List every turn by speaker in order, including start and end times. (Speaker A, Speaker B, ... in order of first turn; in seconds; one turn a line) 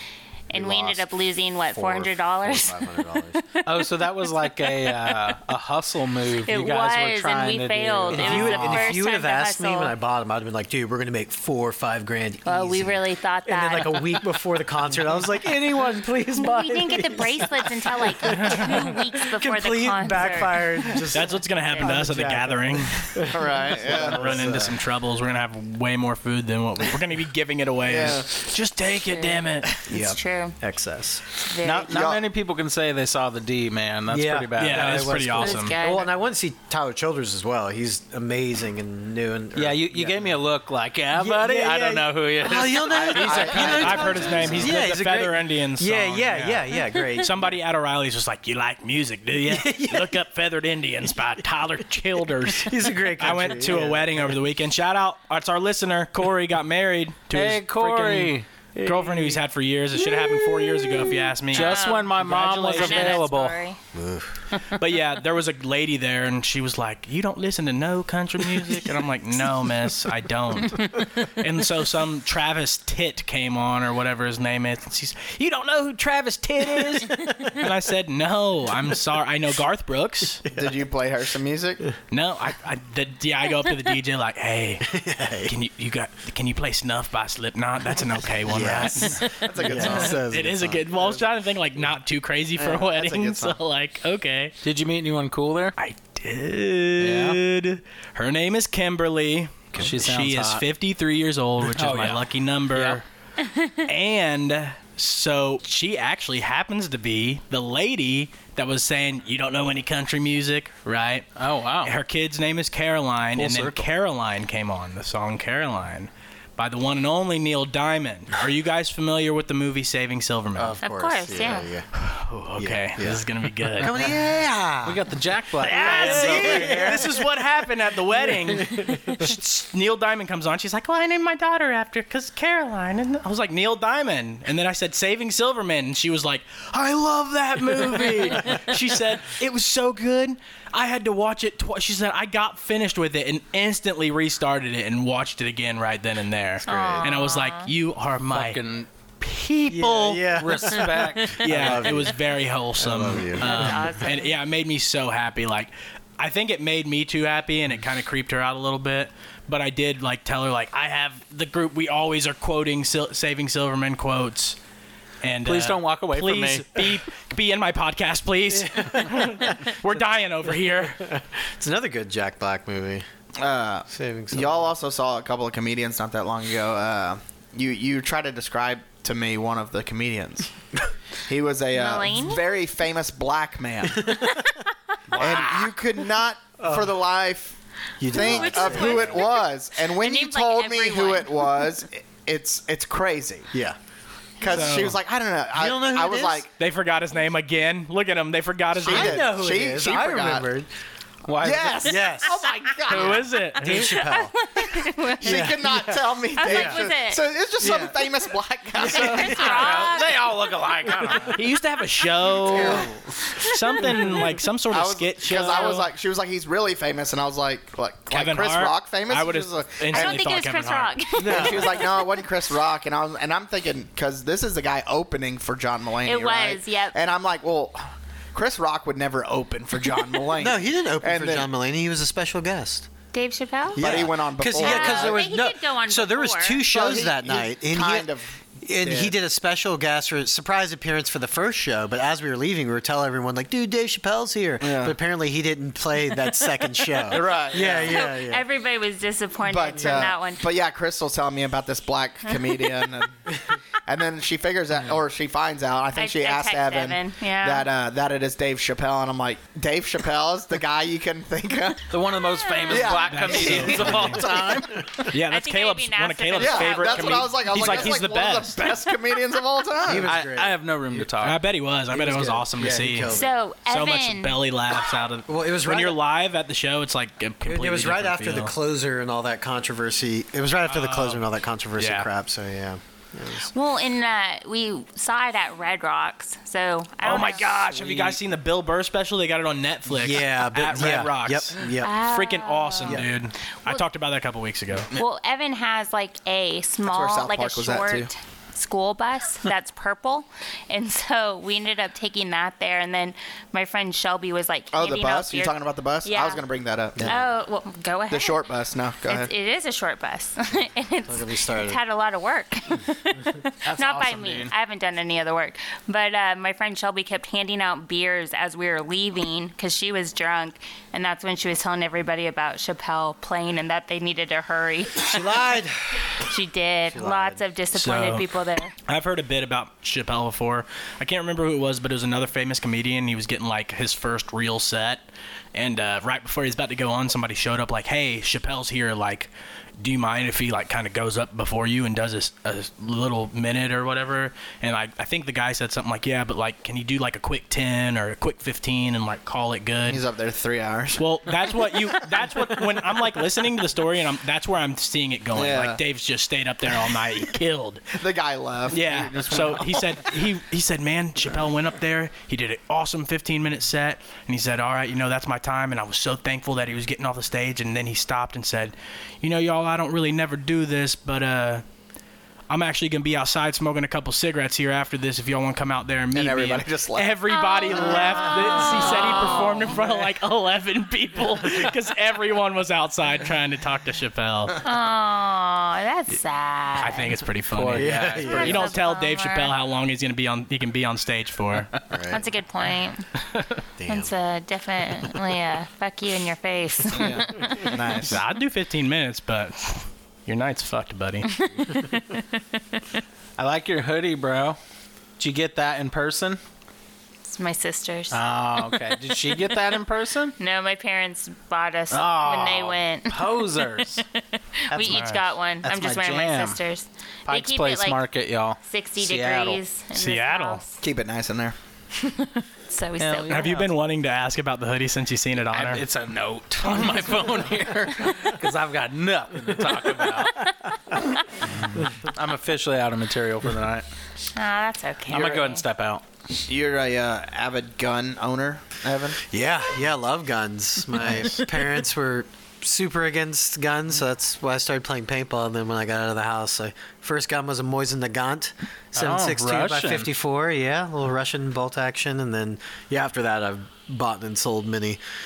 Speaker A: 0.5-5.3
Speaker B: 0.5-1.1
Speaker B: 1.7-3.4
Speaker C: 3.6-8.9
Speaker A: 6.4-9.9
Speaker B: 8.1-24.8
Speaker A: 12.4-14.2
Speaker A: 16.4-21.1
Speaker D: 18.3-18.9
Speaker D: 21.1-23.1
Speaker A: 21.6-22.0
Speaker E: 23.3-24.3
Speaker D: 24.0-29.7
Speaker E: 27.9-28.3
Speaker A: 29.1-30.6
Speaker B: 29.9-31.2
Speaker A: 31.3-31.9
Speaker C: 31.6-35.3
Speaker E: 31.8-32.2
Speaker B: 34.1-40.4
Speaker D: 34.5-35.7
Speaker A: 35.4-36.1
Speaker C: 39.5-44.0
Speaker B: 41.1-47.5
Speaker D: 42.9-63.2
Speaker E: 43.0-44.7
Speaker B: 49.5-50.2
Speaker B: 52.5-54.4
Speaker C: 57.3-58.5
Speaker B: 58.8-59.4
Speaker A: 60.1-62.1
Speaker C: 61.5-63.6
Speaker A: 62.7-63.8
Speaker B: 63.9-64.4
Speaker D: 64.8-80.4
Speaker B: 80.4-80.8
Speaker E: 80.5-81.8
Speaker D: 82.1-84.9
Speaker B: 84.8-85.5
Speaker D: 85.4-94.5
Speaker B: 88.5-90.9
Speaker E: 89.3-90.2
Speaker E: 92.6-93.6
Speaker C: 94.6-95.7
Speaker D: 95.8-103.0
Speaker C: 97.0-97.4
Speaker C: 99.8-100.6
Speaker C: 101.6-103.0
Speaker A: 103.4-103.8
Speaker D: 103.8-111.3
Speaker C: 111.4-111.9
Speaker D: 111.8-120.8
Speaker B: 113.3-113.8
Speaker B: 120.5-121.9
Speaker A: 120.8-121.7
Speaker D: 121.9-124.0
Speaker B: 122.6-123.2
Speaker B: 123.8-125.0
Speaker C: 124.8-127.0
Speaker D: 125.6-148.6
Speaker B: 125.6-127.3
Speaker B: 128.3-129.3
Speaker A: 146.7-147.7
Speaker B: 146.7-147.1
Speaker C: 148.3-148.9
Speaker D: 149.2-150.0
Speaker B: 149.7-152.2
Speaker C: 149.7-151.8
Speaker D: 151.3-164.6
Speaker B: 152.8-153.8
Speaker A: 153.4-154.3
Speaker D: 165.2-171.0
Speaker C: 165.4-166.9
Speaker B: 168.7-169.6
Speaker B: 170.8-173.0
Speaker E: 173.4-180.5
Speaker B: 173.9-174.7
Speaker E: 181.2-184.4
Speaker A: 181.7-182.4
Speaker B: 183.9-184.5
Speaker C: 185.1-185.6
Speaker E: 185.1-187.6
Speaker B: 186.6-187.0
Speaker B: 188.0-189.3
Speaker E: 188.1-193.5
Speaker A: 188.1-191.7
Speaker B: 193.5-193.8
Speaker E: 194.4-196.5
Speaker D: 194.4-195.0
Speaker B: 195.5-196.5
Speaker D: 196.6-199.2
Speaker B: 198.8-200.7
Speaker E: 198.8-200.4
Speaker C: 201.2-202.0
Speaker E: 201.4-203.3
Speaker B: 201.8-202.4
Speaker D: 202.9-204.1
Speaker B: 202.9-204.3
Speaker A: 203.8-205.6
Speaker B: 205.2-206.8
Speaker E: 205.2-209.8
Speaker A: 206.3-207.2
Speaker B: 207.6-208.0
Speaker A: 208.8-210.2
Speaker C: 208.8-211.5
Speaker B: 208.9-209.3
Speaker B: 210.9-211.3
Speaker D: 211.3-215.9
Speaker B: 212.4-213.0
Speaker E: 212.5-212.9
Speaker A: 213.3-213.6
Speaker E: 214.7-220.2
Speaker A: 215.3-215.8
Speaker D: 218.1-221.0
Speaker A: 219.9-222.2
Speaker B: 221.2-221.8
Speaker E: 221.2-227.8
Speaker A: 226.0-226.9
Speaker E: 228.3-231.5
Speaker B: 230.3-232.9
Speaker A: 233.1-233.8
Speaker B: 233.7-248.4
Speaker E: 233.8-235.3
Speaker A: 234.6-236.6
Speaker E: 236.7-239.1
Speaker E: 244.6-244.9
Speaker E: 247.0-248.0
Speaker A: 247.6-250.4
Speaker E: 249.4-253.2
Speaker E: 253.8-261.9
Speaker A: 255.9-257.7
Speaker C: 261.9-264.8
Speaker A: 262.4-263.1
Speaker E: 262.6-264.9
Speaker D: 263.1-264.2
Speaker D: 265.0-268.8
Speaker A: 265.1-267.4
Speaker E: 266.4-270.1
Speaker B: 269.8-271.1
Speaker C: 270.0-271.4
Speaker D: 271.2-273.1
Speaker B: 271.9-273.4
Speaker A: 273.1-274.4
Speaker D: 273.6-278.5
Speaker B: 275.3-276.0
Speaker B: 277.4-283.5
Speaker D: 280.6-281.2
Speaker D: 281.8-282.1
Speaker A: 283.5-287.5
Speaker D: 287.0-294.9
Speaker C: 287.8-288.1
Speaker B: 289.9-291.9
Speaker A: 291.8-293.1
Speaker B: 292.8-293.1
Speaker A: 294.9-306.4
Speaker E: 296.9-298.1
Speaker E: 304.7-307.3
Speaker A: 307.0-308.5
Speaker E: 308.1-309.3
Speaker A: 309.0-325.3
Speaker B: 311.1-311.8
Speaker C: 313.6-314.5
Speaker B: 325.0-326.2
Speaker A: 326.2-328.7
Speaker B: 326.9-327.4
Speaker D: 327.7-328.3
Speaker D: 328.9-350.0
Speaker E: 349.9-351.0
Speaker D: 350.9-357.9
Speaker E: 355.3-355.8
Speaker E: 357.9-359.9
Speaker D: 358.7-371.6
Speaker C: 359.1-359.4
Speaker D: 372.5-384.6
Speaker E: 376.1-377.2
Speaker A: 377.3-379.8
Speaker A: 384.6-387.1
Speaker D: 386.8-391.7
Speaker C: 387.5-388.5
Speaker B: 387.7-388.7
Speaker A: 388.2-389.5
Speaker B: 391.9-392.2
Speaker A: 392.1-393.1
Speaker B: 393.8-394.1
Speaker A: 393.9-397.8
Speaker E: 396.9-398.2
Speaker D: 397.9-401.3
Speaker A: 401.3-402.8
Speaker C: 403.4-404.6
Speaker C: 405.2-406.4
Speaker A: 407.2-409.6
Speaker C: 408.1-410.3
Speaker A: 410.4-418.0
Speaker C: 411.9-414.0
Speaker C: 414.7-416.6
Speaker D: 414.8-415.2
Speaker C: 417.3-419.6
Speaker A: 418.6-420.8
Speaker D: 419.9-420.6
Speaker E: 420.8-421.5
Speaker A: 421.9-423.6
Speaker C: 423.0-423.7
Speaker D: 423.3-425.8
Speaker C: 425.5-430.4
Speaker C: 431.4-433.9
Speaker A: 434.3-435.6
Speaker C: 435.1-436.0
Speaker E: 436.4-439.2
Speaker B: 439.2-455.0
Speaker D: 441.0-441.4
Speaker C: 448.9-450.1